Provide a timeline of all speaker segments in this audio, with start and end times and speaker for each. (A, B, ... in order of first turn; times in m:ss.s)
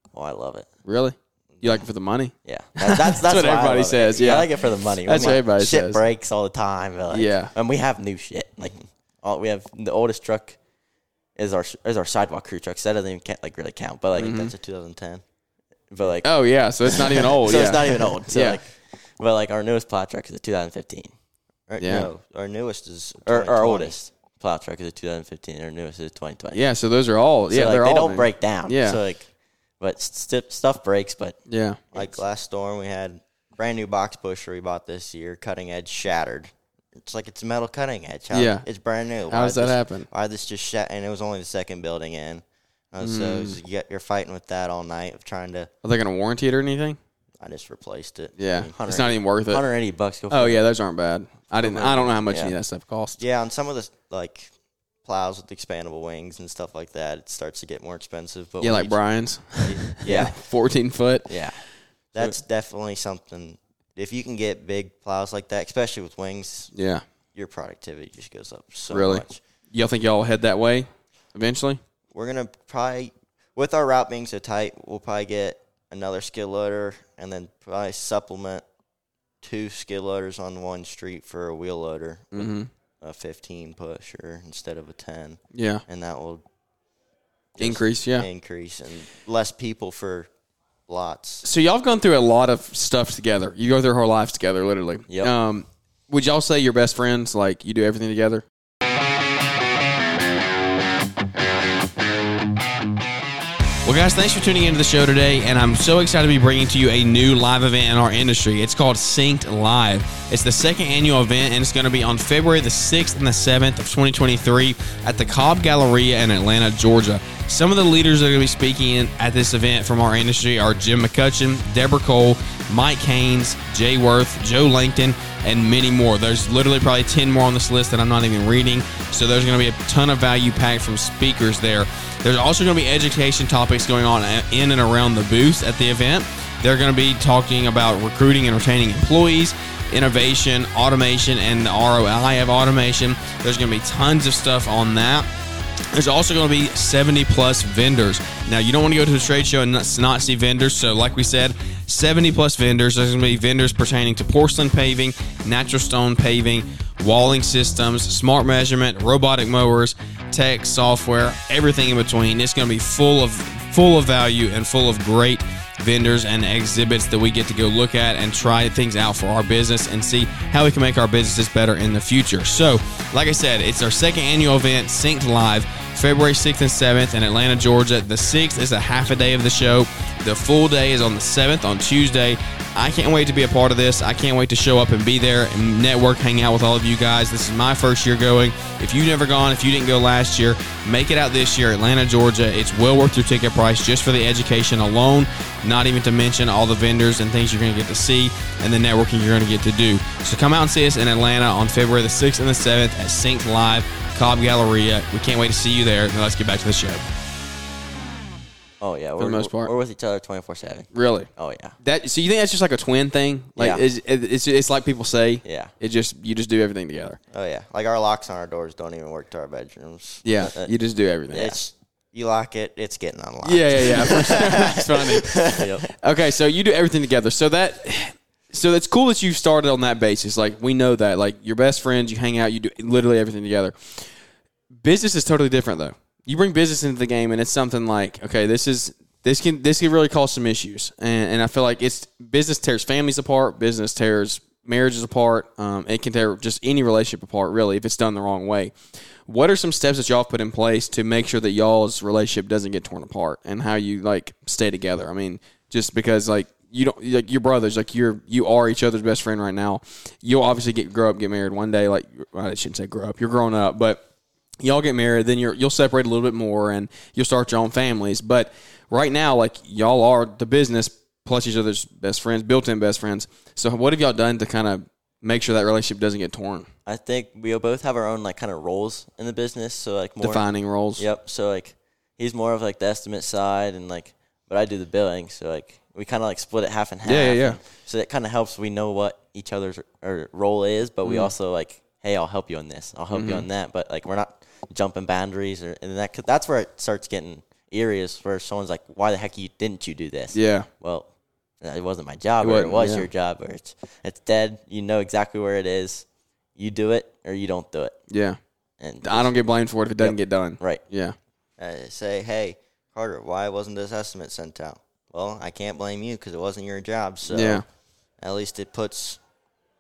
0:00.1-0:00.7 A
0:00.8-0:06.0 B
0:02.4-0:10.6 A
0:05.1-0:05.4 C
0:07.1-0:07.5 B
0:11.4-0:14.5 A
0:14.2-0:14.5 B
0:14.3-0:15.2 C
0:15.9-0:16.3 A
0:16.2-0:18.6 B
0:16.9-0:21.1 A
0:21.7-0:24.0 C
0:21.8-0:22.1 B
0:23.2-0:26.6 A
0:26.5-0:29.0 B
0:27.5-0:29.3 A
0:29.8-0:31.4 A
0:31.5-0:31.8 B
0:31.9-0:32.2 A
0:31.9-0:45.7 C
0:38.3-0:38.6 B
0:39.3-0:40.1 B
0:43.0-0:43.6 B
0:45.8-0:47.0 B
0:47.4-0:48.7 C
0:48.4-0:49.6 B
0:48.7-0:50.6 A
0:50.3-0:53.2 B
0:51.6-0:52.5 A
0:53.2-0:54.5 C
0:55.0-0:59.0 C
0:58.6-1:01.4 B
0:59.6-1:00.3 C
1:00.0-1:00.3 A
1:01.3-1:01.6 A
1:02.1-1:06.7 C
1:06.7-1:07.0 B
1:07.3-1:09.4 C
1:08.9-1:11.8 B
1:12.1-1:18.6 C
1:19.4-1:26.4 C
1:22.3-1:22.7 B
1:25.5-1:25.8 B
1:27.6-1:30.3 C
1:27.6-1:28.3 B
1:30.9-1:31.4 C
1:31.4-1:38.4 B
1:43.8-2:25.3 B
2:25.9-3:27.0 B
3:28.8-3:31.8 A
3:29.2-3:29.7 B
3:30.9-3:31.3 B
3:31.8-3:37.2 B
3:33.6-3:33.8 A
3:35.4-3:35.7 A
3:37.3-3:40.2 C
3:40.2-3:41.6 B
3:40.4-3:40.7 A
3:41.3-3:45.7 C
3:43.4-3:45.4 B
3:45.5-3:45.9 A
3:46.0-3:54.1 B
3:54.7-4:08.7 B
4:09.2-4:24.0 B
4:24.6-4:36.7 B
4:36.8-4:40.4 A
4:40.2-4:41.0 B
4:41.0-5:01.1 A
4:47.0-4:47.6 B
4:51.0-4:51.3 B
4:53.1-4:53.5 B
5:00.3-5:00.7 B
5:01.6-5:06.0 A
5:02.4-5:03.1 B
5:06.6-5:08.0 A
5:08.1-5:08.4 B
5:08.8-5:09.3 A
5:09.0-5:11.2 B
5:10.0-5:10.8 A
5:11.6-5:17.6 C
5:17.3-5:17.6 B
5:18.2-5:19.2 C